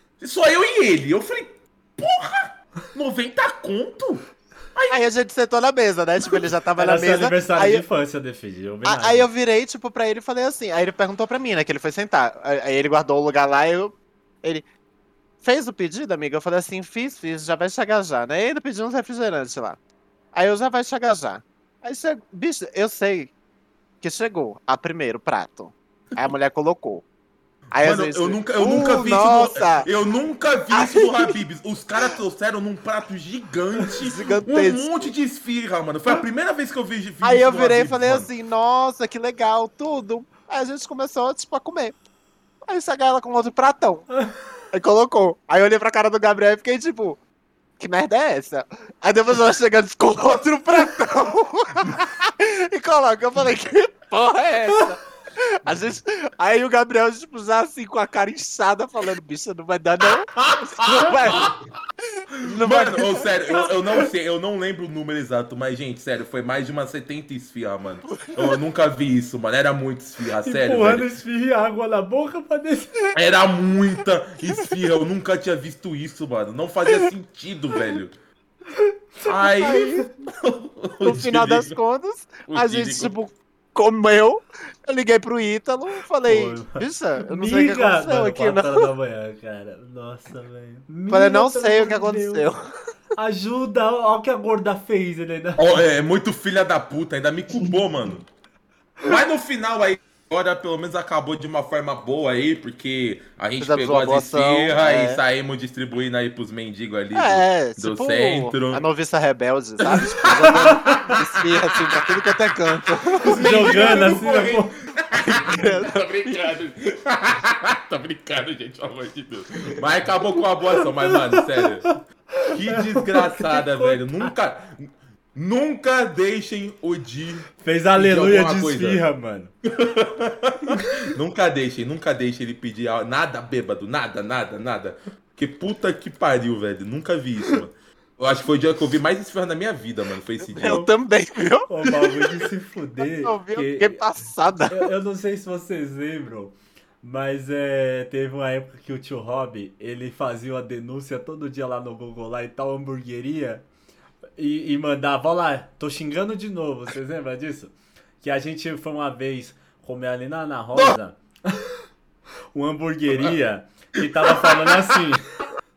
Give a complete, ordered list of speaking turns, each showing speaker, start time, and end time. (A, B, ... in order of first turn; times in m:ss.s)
0:00.2-0:05.1 A
0:04.9-0:07.8 B
0:06.8-0:09.3 C
0:08.8-0:14.6 B
0:15.4-0:19.8 B
0:20.3-0:23.3 B
0:24.0-0:27.0 B
0:27.7-0:29.9 B
0:27.8-0:38.3 A
0:30.7-0:31.4 B
0:34.0-0:35.1 B
0:37.2-0:42.0 B
0:42.6-0:44.1 B
0:44.7-0:47.2 B
0:47.8-1:01.6 B
1:00.3-1:01.6 A
1:02.2-1:03.7 B
1:02.6-1:11.1 A
1:08.1-1:08.6 B
1:10.4-1:13.1 C
1:13.1-1:18.1 A
1:18.7-1:20.0 C
1:19.2-1:21.8 A
1:19.5-1:20.1 B
1:21.0-1:28.9 B
1:22.5-1:23.2 A
1:26.2-1:32.5 C
1:31.1-1:32.7 B
1:33.2-1:35.8 C
1:35.6-1:38.2 A
1:39.0-1:48.8 A
1:43.6-1:45.2 B
1:47.1-1:54.3 B
1:49.8-1:51.2 A
1:50.3-1:51.2 C
1:51.9-1:52.3 A
1:53.1-2:01.9 A
1:53.2-1:54.7 C
1:55.1-1:56.4 B
2:00.8-2:04.3 C
2:02.4-2:09.0 A
2:07.6-2:09.5 C
2:09.8-2:20.9 A
2:20.4-2:22.4 B
2:21.7-2:24.0 C
2:23.0-2:24.9 B
2:24.7-2:33.6 C
2:34.4-2:41.8 C
2:42.5-2:45.2 C
2:44.0-2:44.9 A